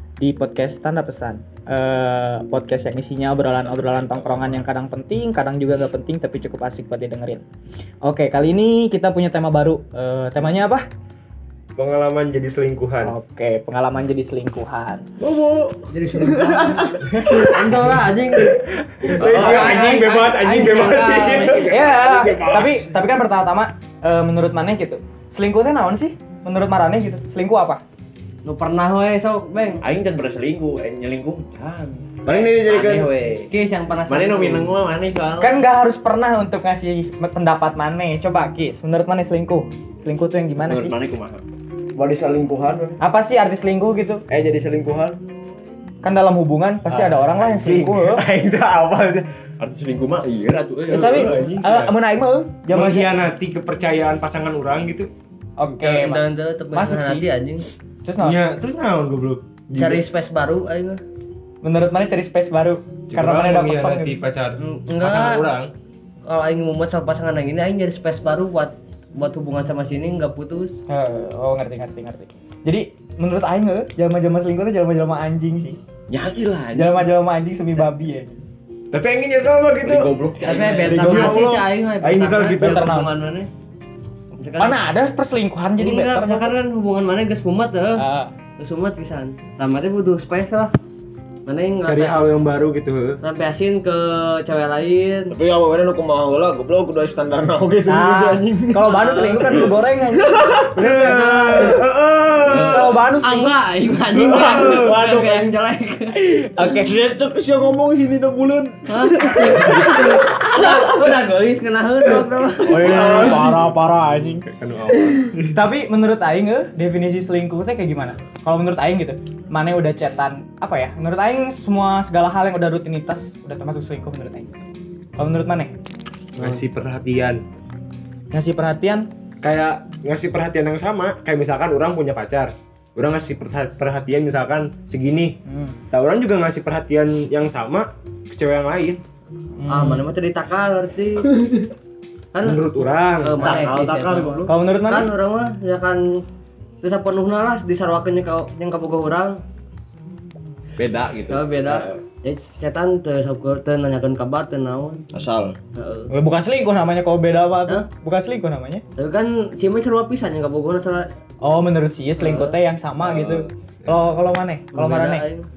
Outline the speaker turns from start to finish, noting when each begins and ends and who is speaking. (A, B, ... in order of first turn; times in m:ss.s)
0:00.2-0:07.4 A
0:08.0-0:10.8 A
0:11.8-0:13.2 B
0:13.0-0:15.0 A
0:15.2-0:15.8 B
0:15.9-0:18.6 C
0:16.4-0:22.8 B
0:19.1-0:21.7 C
0:19.2-0:20.2 A
0:21.6-0:27.8 A
0:28.4-0:29.8 C
0:29.8-0:33.5 D
0:32.2-0:33.1 E
0:33.5-0:34.7 C
0:34.1-0:35.6 D
0:35.4-0:40.9 A
0:40.6-0:41.4 D
0:41.9-0:43.0 E
0:43.0-0:44.2 A
0:44.3-0:44.6 B
0:44.4-0:45.2 E
0:46.0-0:48.2 A
0:46.9-0:49.3 B
0:49.6-0:51.5 D
0:50.9-0:53.1 A
0:50.9-0:52.0 B
0:52.7-0:55.1 B
0:55.6-0:57.2 A
0:55.8-0:57.7 C
0:58.0-0:58.4 A
0:58.2-1:00.0 B
0:59.7-1:01.0 C
1:01.6-1:04.2 A
1:03.1-1:05.7 B
1:04.6-1:05.4 C
1:06.2-1:10.8 C
1:10.9-1:15.8 A
1:16.1-1:17.1 D
1:16.7-1:18.4 A
1:18.9-1:22.9 B
1:19.8-1:20.9 D
1:20.4-1:23.5 C
1:20.7-1:21.6 A
1:22.6-1:23.1 A
1:24.4-1:24.8 C
1:24.6-1:26.5 A
1:25.8-1:28.0 C
1:27.9-1:28.3 A
1:28.6-1:30.7 C
1:31.4-1:32.3 C
1:31.8-1:33.2 B
1:33.2-1:35.4 C
1:35.3-1:39.7 E
1:37.9-1:40.8 A
1:38.9-1:39.3 C
1:40.3-1:42.8 B
1:40.8-1:41.6 E
1:40.8-1:41.8 C
1:42.4-1:42.8 E
1:42.4-1:42.9 D
1:42.7-1:43.6 A
1:43.2-1:46.2 C
1:44.2-1:45.0 B
1:44.4-1:45.5 E
1:46.2-1:46.9 A
1:46.6-1:50.9 E
1:48.9-1:53.4 C
1:52.7-1:53.7 B
1:52.7-1:54.4 A
1:52.8-1:53.3 E
1:54.4-1:55.6 B
1:55.5-2:04.6 A
2:05.2-2:05.8 A
2:06.4-2:07.4 B
2:08.3-2:09.1 A
2:09.4-2:15.4 B
2:15.4-2:15.8 A
2:15.9-2:19.0 B
2:19.6-2:20.0 A
2:19.7-2:21.3 C
2:22.3-2:26.2 C
2:22.4-2:23.6 B
2:23.4-2:24.5 E
2:24.4-2:25.1 A
2:26.8-2:29.4 C
2:30.8-2:32.0 D
2:31.3-2:35.0 C
2:35.1-2:35.6 E
2:35.7-2:36.1 C
2:36.1-2:38.8 A
2:39.0-2:41.1 C
2:41.4-2:45.2 A
2:42.2-2:42.6 C
2:43.0-2:43.4 D
2:44.7-2:45.5 C